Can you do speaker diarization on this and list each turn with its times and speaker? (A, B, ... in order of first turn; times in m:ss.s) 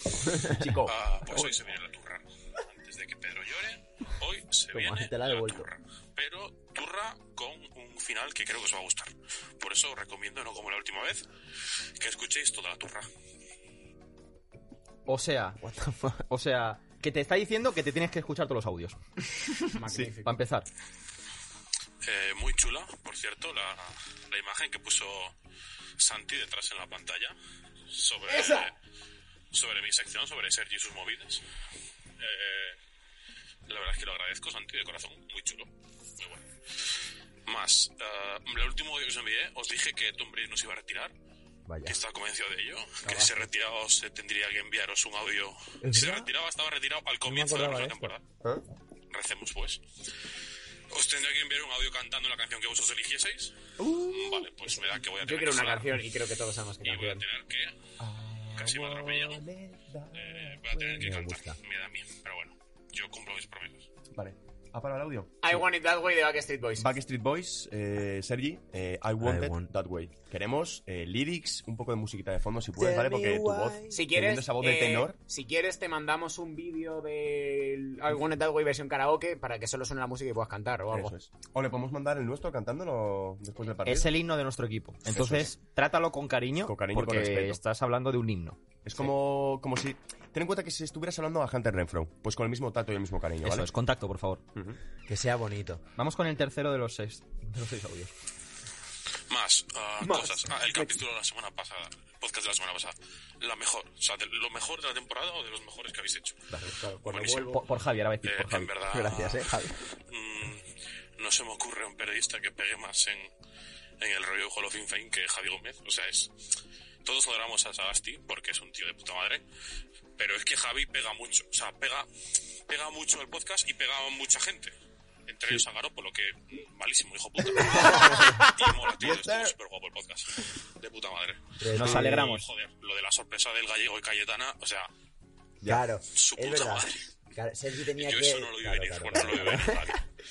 0:00.5-0:01.0 A
0:00.8-0:11.3 B
0:04.7-0:05.7 C
0:12.0-0:13.1 B
0:15.1-0:15.6 D
0:15.6-0:16.2 C
0:16.3-0:19.0 D
0:19.5-0:20.7 D
0:19.7-0:20.4 E
0:22.0-0:25.4 B
0:26.0-0:27.4 B
0:27.9-0:28.7 B
0:28.3-0:28.7 E
0:29.5-0:31.4 B
0:32.2-0:32.8 B
0:33.7-0:41.1 B
0:41.7-0:42.0 C
0:41.8-0:48.2 B
0:43.1-0:43.4 C
0:45.8-0:46.3 C
0:47.3-0:48.1 C
0:49.1-0:49.8 B
0:50.9-0:55.9 B
0:53.8-0:54.4 C
0:55.2-0:57.2 E
0:56.8-0:57.8 B
0:58.0-1:01.1 A
0:58.6-0:59.4 B
1:00.2-1:03.9 B
1:01.0-1:01.6 C
1:04.1-1:05.6 A
1:05.4-1:06.9 E
1:06.8-1:15.2 A
1:09.2-1:09.7 C
1:12.8-1:14.0 C
1:13.9-1:21.1 E
1:20.9-1:24.1 A
1:23.8-1:28.6 D
1:25.1-1:25.5 A
1:26.6-1:27.6 A
1:28.8-1:33.7 A
1:33.4-1:34.4 D
1:35.1-1:35.8 C
1:36.0-1:38.1 D
1:39.3-1:46.4 B
1:40.0-1:41.0 E
1:46.8-1:47.5 E
1:47.0-1:47.6 B
1:47.4-1:48.7 D
1:48.2-1:50.7 B
1:48.9-1:49.8 C
1:51.2-1:53.3 B
1:54.0-1:56.3 B
1:57.0-1:59.4 B
2:00.2-2:02.1 B
2:02.7-2:04.7 B
2:05.3-2:14.9 B
2:07.9-2:08.4 C
2:11.6-2:12.3 C
2:11.7-2:12.4 D
2:15.6-2:20.0 C
2:16.1-2:17.1 B
2:18.0-2:20.0 B